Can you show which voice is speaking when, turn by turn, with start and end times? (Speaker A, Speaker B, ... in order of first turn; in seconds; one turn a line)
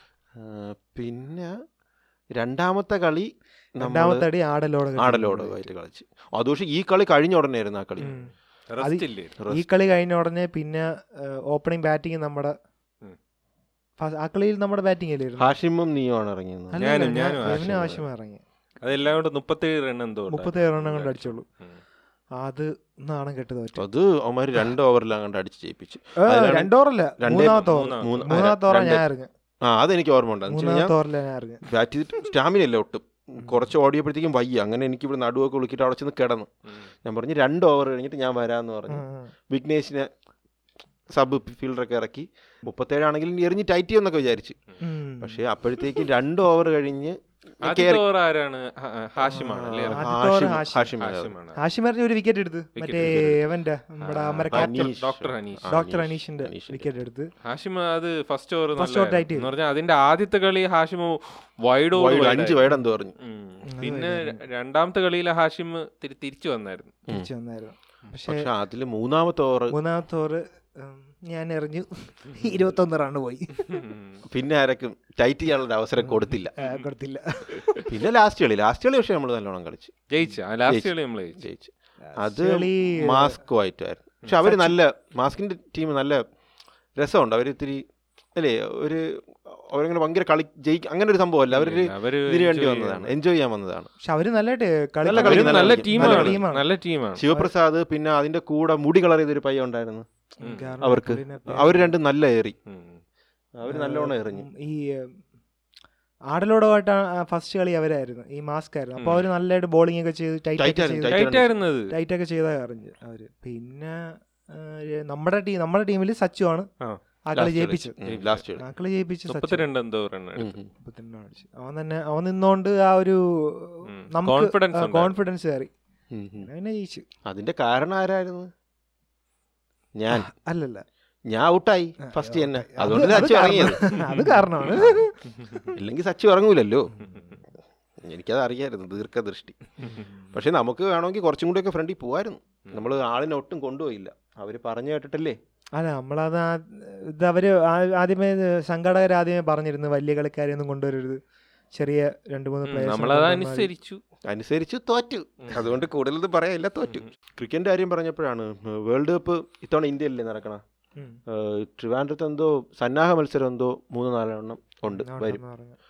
Speaker A: 0.3-1.5
Speaker A: 2.3-4.3
Speaker B: 3.8-5.7
Speaker A: 5.0-8.1
Speaker B: 8.0-12.5
Speaker C: 8.7-9.3
Speaker A: 9.4-9.7
Speaker B: 14.0-15.5
Speaker A: 15.4-18.0
Speaker B: 16.7-18.4
Speaker C: 16.8-17.8
Speaker C: 18.8-21.8
Speaker B: 20.3-21.4
Speaker B: 22.4-23.8
Speaker A: 23.8-29.0
Speaker B: 26.2-29.3
Speaker C: 27.4-28.4
Speaker A: 29.6-30.9
Speaker B: 30.5-31.6
Speaker A: 31.6-36.5
Speaker A: 37.0-40.1
Speaker B: 38.9-39.3
Speaker A: 41.1-44.6
Speaker B: 44.8-45.4
Speaker A: 45.2-48.0
Speaker C: 47.6-50.1
Speaker B: 49.3-50.9
Speaker A: 49.4-51.3
Speaker C: 51.0-51.6
Speaker B: 51.6-54.9
Speaker C: 52.8-53.3
Speaker A: 53.0-53.4
Speaker C: 54.0-55.7
Speaker A: 54.5-56.9
Speaker B: 55.7-57.3
Speaker C: 57.4-62.6
Speaker B: 58.8-59.5
Speaker A: 61.9-63.1
Speaker C: 63.2-66.9
Speaker B: 63.7-64.4
Speaker B: 67.1-68.5
Speaker A: 68.3-69.8
Speaker B: 69.7-73.8
Speaker C: 73.7-74.2
Speaker A: 74.3-76.5
Speaker B: 76.0-77.9
Speaker A: 77.9-79.9
Speaker C: 80.1-81.4
Speaker A: 80.7-86.2
Speaker B: 82.1-83.4
Speaker B: 84.4-84.8
Speaker A: 87.0-87.8
Speaker A: 88.3-93.9
Speaker C: 91.5-93.1
Speaker B: 94.0-96.7
Speaker A: 95.0-96.4
Speaker C: 95.1-97.2
Speaker A: 97.2-100.0
Speaker B: 100.4-101.9
Speaker C: 100.4-100.7
Speaker A: 100.8-102.5
Speaker C: 102.7-103.0
Speaker A: 103.6-104.5
Speaker B: 103.7-105.2
Speaker B: 106.3-111.3
Speaker C: 109.0-109.3
Speaker A: 110.6-111.5
Speaker C: 111.1-111.9
Speaker B: 111.9-116.7
Speaker B: 117.3-117.9
Speaker A: 117.3-118.6
Speaker C: 118.0-118.4
Speaker B: 118.6-119.6
Speaker C: 119.3-120.5
Speaker A: 120.3-120.7
Speaker B: 120.8-125.7
Speaker C: 123.9-125.1
Speaker A: 126.1-126.5
Speaker B: 126.4-127.0
Speaker A: 127.2-128.5
Speaker A: 129.9-130.3
Speaker B: 130.1-130.8
Speaker A: 131.3-135.0
Speaker B: 132.0-135.6
Speaker A: 135.7-136.9
Speaker B: 137.0-137.4
Speaker A: 138.0-139.6
Speaker B: 139.8-140.3
Speaker A: 140.3-145.4
Speaker B: 145.8-151.2
Speaker B: 151.7-153.7
Speaker C: 152.7-154.0
Speaker A: 154.3-160.6
Speaker A: 161.3-165.4
Speaker B: 164.9-165.8